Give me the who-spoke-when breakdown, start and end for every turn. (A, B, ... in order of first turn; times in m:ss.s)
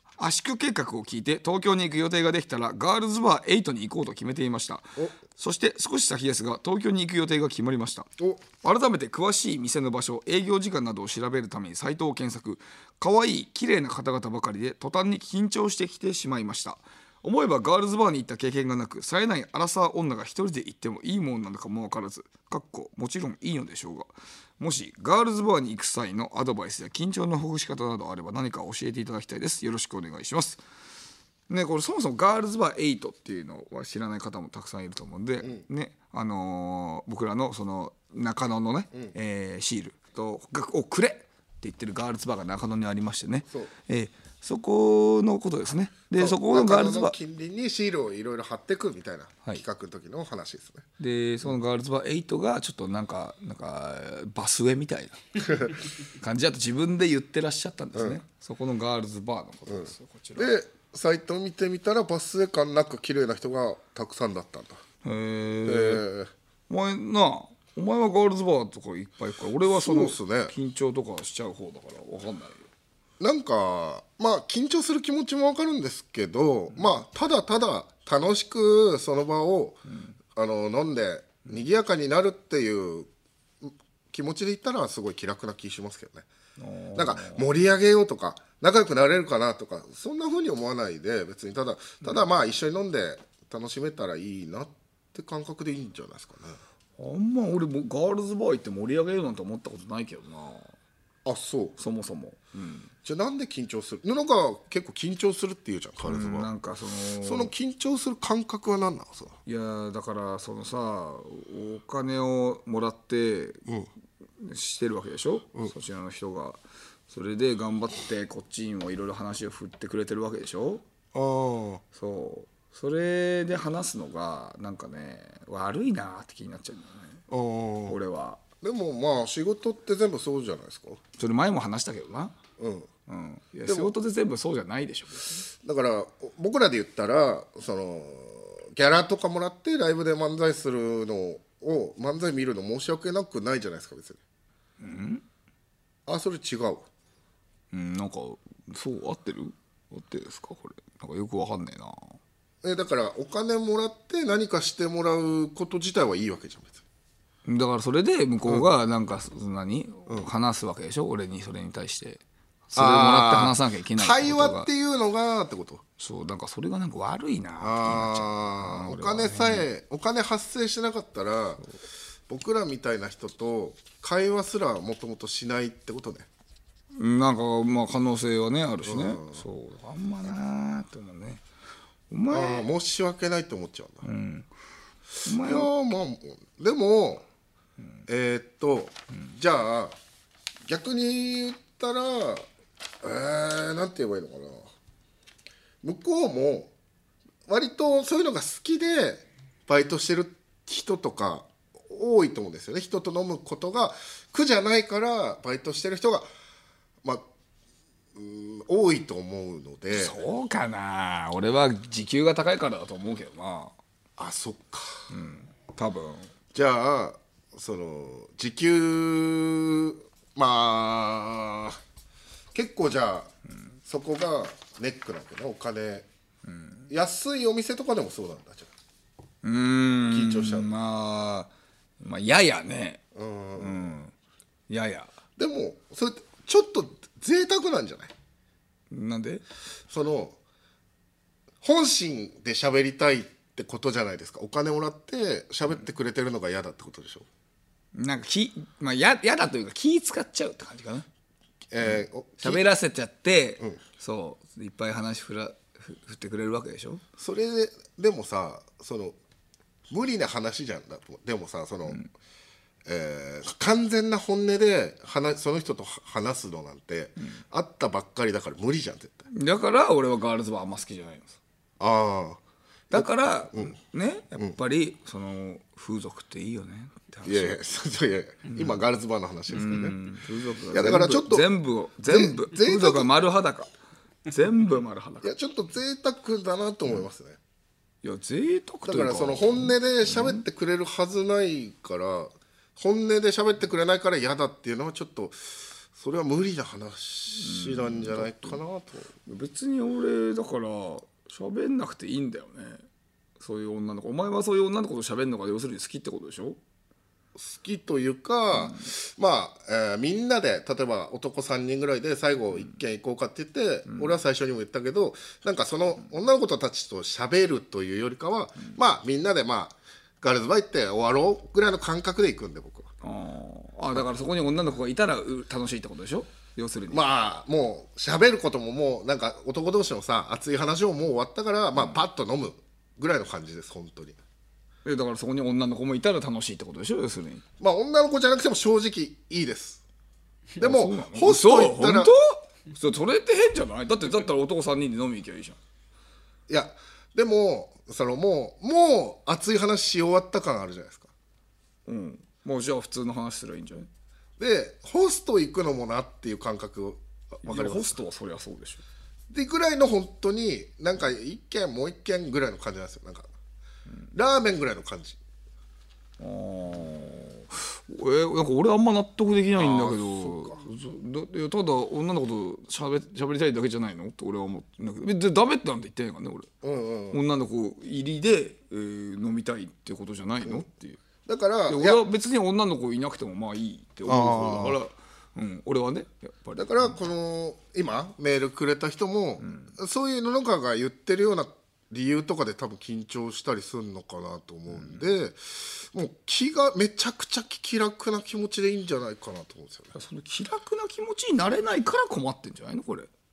0:00.2-0:08.1 A
0:08.6-0:30.6 A
0:31.5-0:47.2 A
0:46.1-0:50.8 B
0:51.0-0:55.2 A
0:56.2-1:00.5 A
0:59.7-1:04.8 B
1:05.0-1:06.0 A
1:05.6-1:06.3 B
1:06.7-1:12.6 A
1:09.6-1:10.5 B
1:13.2-1:19.8 B
1:20.4-1:23.1 B
1:23.6-1:26.3 B
1:26.6-1:27.4 A
1:26.9-1:36.6 B
1:37.0-1:40.8 A
1:41.2-1:41.8 B
1:41.8-1:42.9 A
1:43.0-1:46.5 B
1:46.0-1:47.5 A
1:47.2-1:49.4 B
1:49.5-1:53.6 A
1:54.4-2:00.8 A
2:01.1-2:01.8 B
2:01.9-2:07.2 A
2:07.3-2:08.0 B
2:07.9-2:08.4 A
2:08.6-2:11.0 B
2:11.2-2:12.4 A
2:12.6-2:12.9 B
2:13.1-2:15.5 A
2:13.6-2:13.9 B
2:15.6-2:24.2 B
2:24.8-2:25.2 A
2:26.0-2:26.9 B
2:27.7-2:32.2 A
2:32.6-2:36.8 B
2:37.5-2:44.7 A
2:42.8-2:45.8 B
2:46.0-2:49.7 A
2:47.6-2:51.6 B
2:52.3-2:56.3 B
2:57.0-3:01.4 A
2:58.8-2:59.4 B
3:02.1-3:02.6 A
3:02.3-3:04.1 B
3:04.0-3:04.5 A
3:05.2-3:05.7 A
3:05.2-3:07.2 B
3:08.1-3:09.9 B
3:10.6-3:12.5 B
3:13.0-3:14.7 B
3:15.8-3:16.7 B
3:17.5-3:26.3 B
3:28.1-3:30.2 B
3:29.9-3:33.8 A
3:34.2-3:35.1 B
3:35.1-3:36.3 A
3:36.5-3:41.8 B
3:42.5-3:43.3 B
3:43.8-3:46.1 B
3:46.5-3:46.9 A
3:46.9-3:48.7 B
3:49.4-3:51.5 A
3:50.1-3:50.7 B
3:52.0-3:53.0 A
3:53.1-3:53.9 B
3:53.6-3:54.1 A
3:54.7-3:55.1 A
3:55.4-3:58.1 B
3:58.9-3:59.4 A
3:59.9-4:00.4 B
4:01.6-4:07.2 B
4:07.9-4:11.1 A
4:11.7-4:12.6 B
4:11.8-4:17.0 A
4:17.2-4:19.2 B
4:19.9-4:22.0 B
4:22.9-4:29.2 B
4:29.3-4:31.4 A
4:31.8-4:32.4 B
4:32.9-4:33.8 B
4:32.9-4:37.6 A
4:37.2-4:40.0 B
4:38.5-4:38.8 A
4:39.5-4:43.7 A
4:40.7-4:41.5 B
4:42.0-4:43.1 B
4:44.3-4:45.3 A
4:45.2-4:47.4 B
4:48.0-4:50.4 A
4:48.8-4:55.4 B
4:55.9-4:59.1 B
4:57.4-4:58.6 A
4:59.2-5:02.8 A
5:03.4-5:06.6 A
5:07.4-5:22.9 B
5:08.5-5:08.8 A
5:13.9-5:14.2 A
5:23.0-5:27.0 A
5:26.9-5:34.2 B
5:34.8-5:37.4 A
5:37.6-5:39.8 B
5:40.6-5:42.1 B
5:40.6-5:45.6 A
5:46.5-5:51.1 B
5:51.9-5:53.9 A
5:54.4-5:58.0 B
5:57.4-5:58.8 A
5:59.3-6:03.3 B
6:04.1-6:05.2 B
6:06.2-6:16.5 A
6:09.6-6:10.6 B
6:16.6-6:17.2 B
6:17.1-6:21.0 A
6:21.2-6:22.0 B
6:21.7-6:27.0 A
6:24.0-6:24.8 B
6:26.6-6:39.9 B
6:29.4-6:29.7 A
6:34.7-6:35.0 A
6:39.9-6:43.1 A